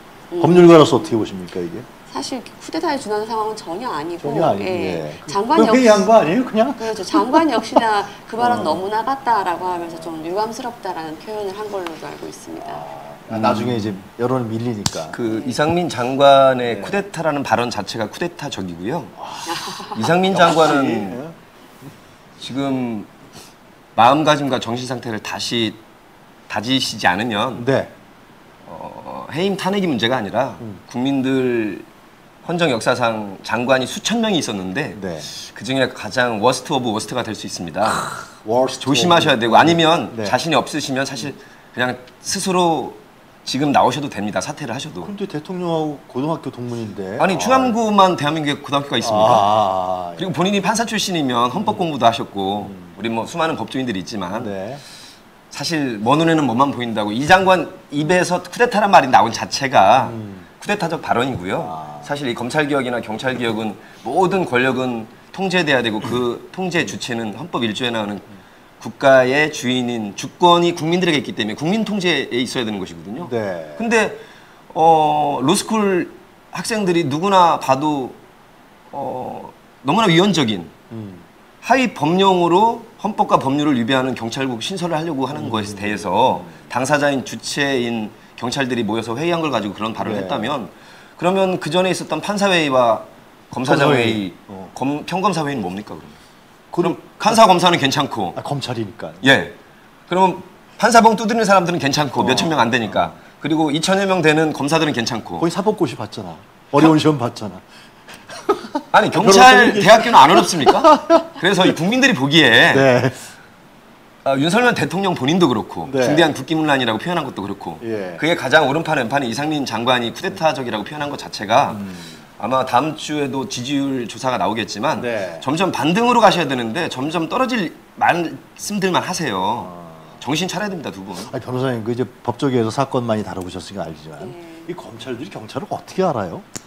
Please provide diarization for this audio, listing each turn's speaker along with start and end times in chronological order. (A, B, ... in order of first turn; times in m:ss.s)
0:00.3-0:01.2 A
0:00.4-0:01.8 B
0:02.1-0:06.1 A
0:04.2-0:07.8 B
0:06.8-0:12.8 A
0:08.4-0:08.8 B
0:09.6-0:10.2 B
0:12.6-0:15.2 B
0:13.3-0:14.0 C
0:15.1-0:19.1 C
0:15.2-0:15.6 A
0:16.6-0:17.0 B
0:19.2-0:21.4 B
0:19.5-0:20.1 A
0:19.9-0:21.2 C
0:22.4-0:23.1 C
0:24.0-0:25.8 C
0:26.5-0:27.7 C
0:27.6-0:27.9 B
0:28.6-0:31.8 C
0:32.4-0:38.0 C
0:34.9-0:35.3 B
0:37.8-0:40.4 B
0:38.8-0:45.1 C
0:45.0-0:47.7 B
0:47.2-0:49.5 C
0:49.0-0:50.4 B
0:50.2-0:54.5 C
0:51.5-0:51.8 B
0:52.6-0:52.9 B
0:54.3-0:54.8 B
0:55.5-1:08.3 C
1:00.0-1:00.5 B
1:01.6-1:02.1 B
1:08.8-1:18.2 C
1:13.2-1:13.8 B
1:18.9-1:20.7 C
1:20.9-1:21.2 B
1:21.6-1:36.2 C
1:25.3-1:26.7 B
1:30.0-1:30.6 B
1:33.6-1:34.7 B
1:36.7-1:37.5 B
1:36.8-1:38.4 C
1:38.3-1:39.2 B
1:39.2-1:39.6 C
1:40.1-1:45.5 C
1:42.2-1:43.2 B
1:45.4-1:47.6 B
1:48.3-1:51.7 B
1:48.9-1:52.9 C
1:52.7-1:53.3 B
1:54.2-2:11.3 C
1:55.8-1:56.3 B
1:57.8-1:58.2 B
2:01.7-2:02.2 B
2:05.0-2:05.4 B
2:09.6-2:10.2 B
2:11.2-2:16.4 B
2:14.2-2:14.7 A